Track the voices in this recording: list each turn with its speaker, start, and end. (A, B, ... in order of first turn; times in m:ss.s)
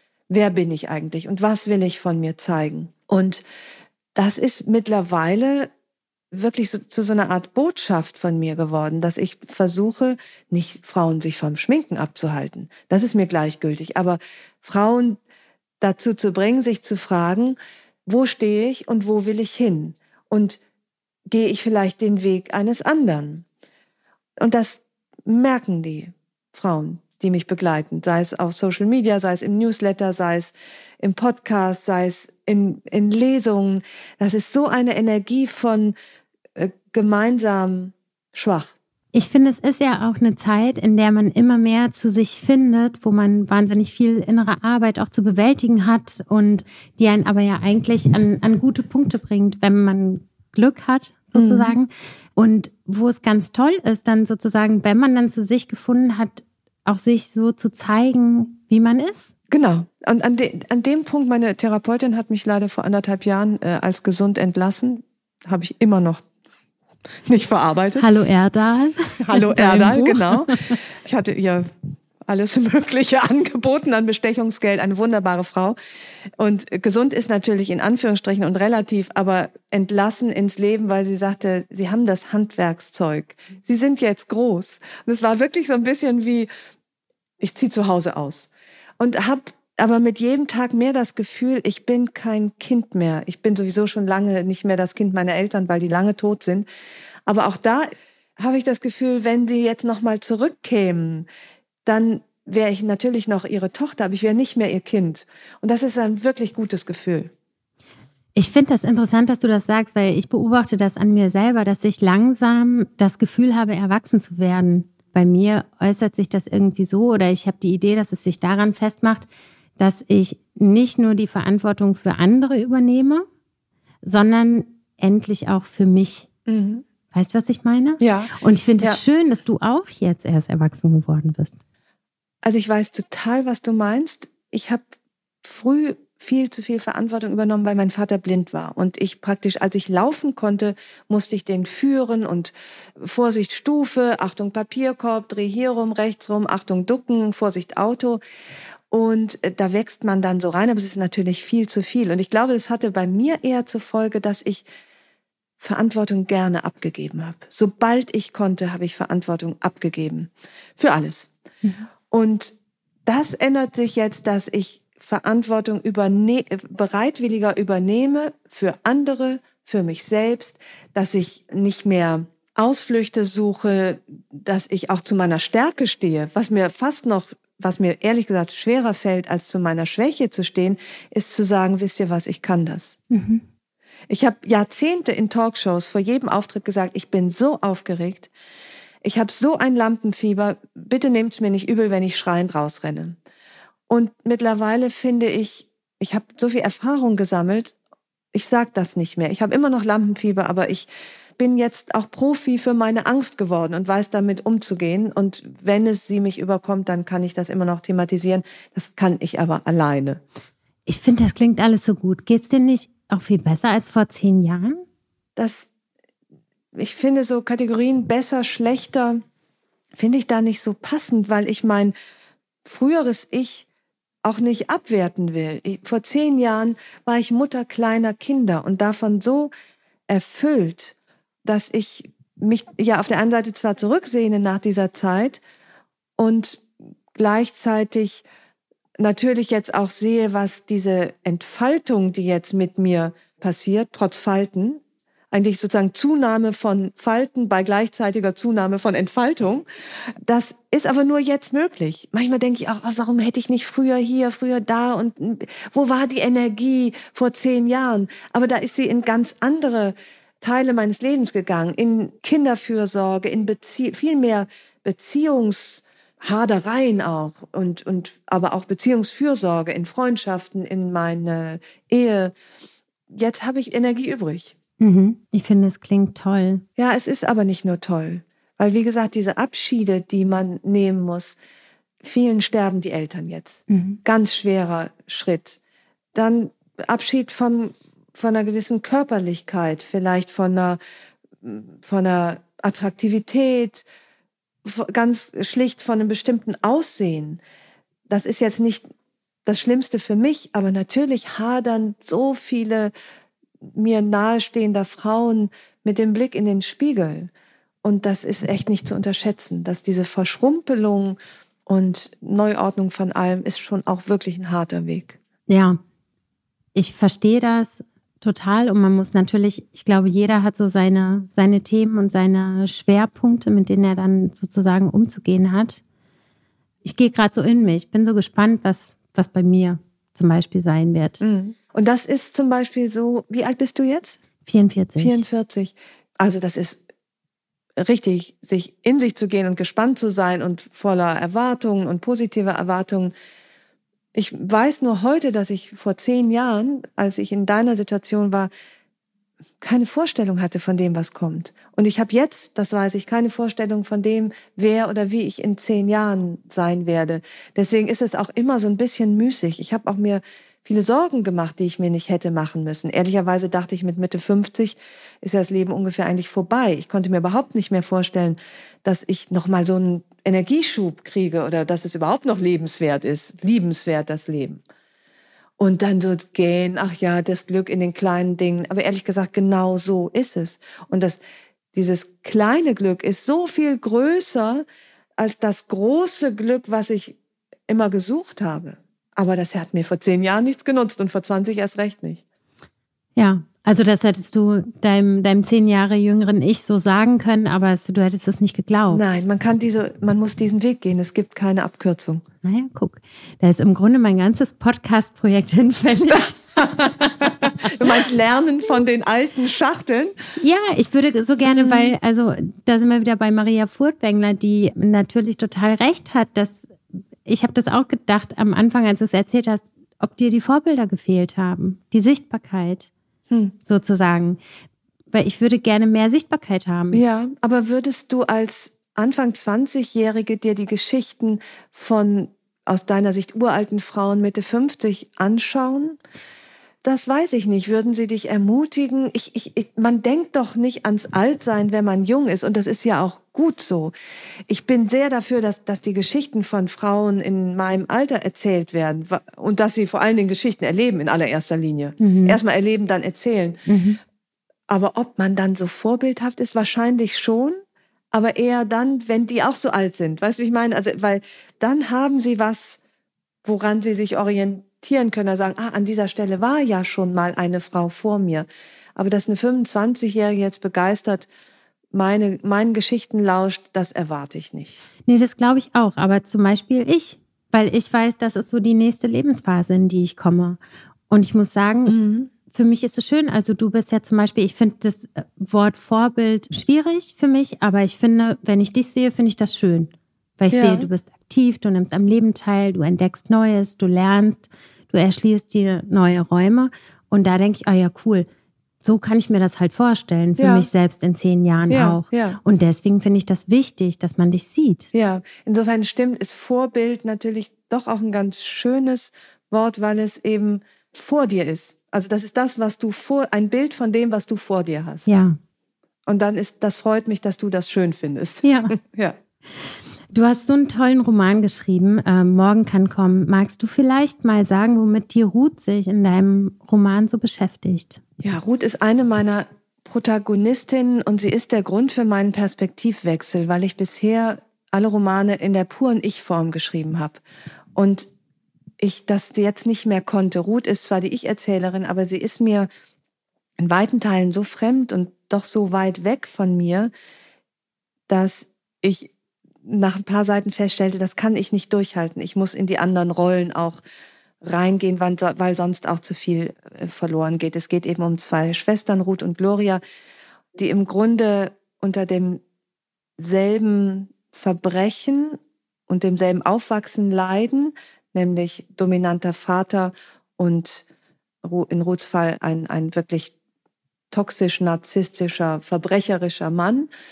0:00.3-0:03.4 A
0:04.1-0:05.7 A
0:06.3-0:15.2 A
0:15.8-0:20.6 A
0:21.3-0:23.4 A
0:24.4-0:35.9 A
0:36.6-0:38.7 A
0:39.1-0:59.3 B
0:51.3-0:51.7 A
0:59.5-1:06.2 A
1:07.2-1:08.0 A
1:08.0-1:10.8 B
1:09.2-1:11.7 A
1:12.3-1:15.8 A
1:16.4-1:26.5 A
1:27.4-1:36.6 A
1:37.3-1:41.2 A
1:41.8-1:47.3 A
1:48.3-2:03.2 B
2:04.0-2:06.3 B
2:06.5-2:06.8 A
2:07.1-2:11.6 B
2:08.0-2:09.0 A
2:12.4-2:14.8 A
2:15.4-2:28.2 A
2:28.9-2:34.6 A
2:35.6-2:41.3 A
2:42.1-2:42.5 A
2:43.0-3:03.0 A
3:03.1-3:03.4 B
3:04.1-3:08.3 A
3:09.0-3:13.2 A
3:13.9-3:17.7 A
3:18.3-3:30.2 A
3:30.8-3:34.8 B
3:35.4-3:35.7 A
3:36.7-3:39.2 A
3:40.0-3:41.9 A
3:42.6-3:43.7 A
3:44.2-3:49.5 A
3:50.1-3:55.4 A
3:56.2-3:58.2 A
3:59.0-4:09.6 A
4:10.2-4:32.3 A
4:33.1-4:34.5 A
4:34.8-4:36.6 B
4:36.8-4:41.4 A
4:42.0-4:45.6 A
4:43.7-4:44.0 B
4:46.1-4:50.8 A
4:51.4-4:53.8 A
4:54.6-4:57.4 A
4:58.1-4:58.8 A
4:59.4-5:02.9 A
5:03.7-5:07.3 A
5:07.8-5:15.2 A
5:15.5-5:15.8 B
5:16.7-5:25.8 B
5:26.8-5:31.2 B
5:31.2-5:34.2 A
5:34.4-5:35.2 B
5:35.0-5:36.8 A
5:37.8-5:43.1 A
5:44.1-5:48.5 A
5:49.6-6:14.6 A
6:15.6-6:21.2 A
6:21.7-6:24.6 A
6:25.2-6:27.2 A
6:27.7-6:32.2 A
6:33.2-6:39.2 B
6:38.9-6:42.2 A
6:42.4-6:47.7 B
6:46.2-6:50.1 A
6:50.4-6:56.7 B
6:51.5-6:51.9 A
6:57.2-7:02.9 B
7:03.6-7:04.4 B
7:05.1-7:07.0 B
7:06.9-7:16.0 A
7:16.8-7:23.9 A
7:24.5-7:33.6 A
7:32.0-7:32.4 B
7:33.7-7:34.0 B
7:34.7-7:37.6 A
7:38.1-7:42.8 A
7:43.4-7:51.3 A
7:51.9-7:54.8 A
7:55.0-8:02.0 B
8:01.8-8:02.3 A
8:02.5-8:18.3 B
8:10.5-8:10.9 A
8:18.8-8:24.9 B
8:20.4-8:20.7 A
8:21.7-8:22.4 A
8:24.9-8:35.2 A
8:35.1-8:35.4 B
8:36.1-8:39.2 A
8:38.4-8:38.7 B
8:39.6-8:48.0 B
8:48.2-8:57.2 A
8:57.8-8:58.1 A
8:58.8-9:02.7 A
9:03.6-9:06.9 A
9:08.1-9:09.1 A
9:09.6-9:13.8 A
9:14.4-9:19.8 A
9:20.5-9:22.4 A
9:23.2-9:25.4 A
9:25.9-9:30.8 A
9:31.4-9:33.3 A
9:34.1-9:36.9 A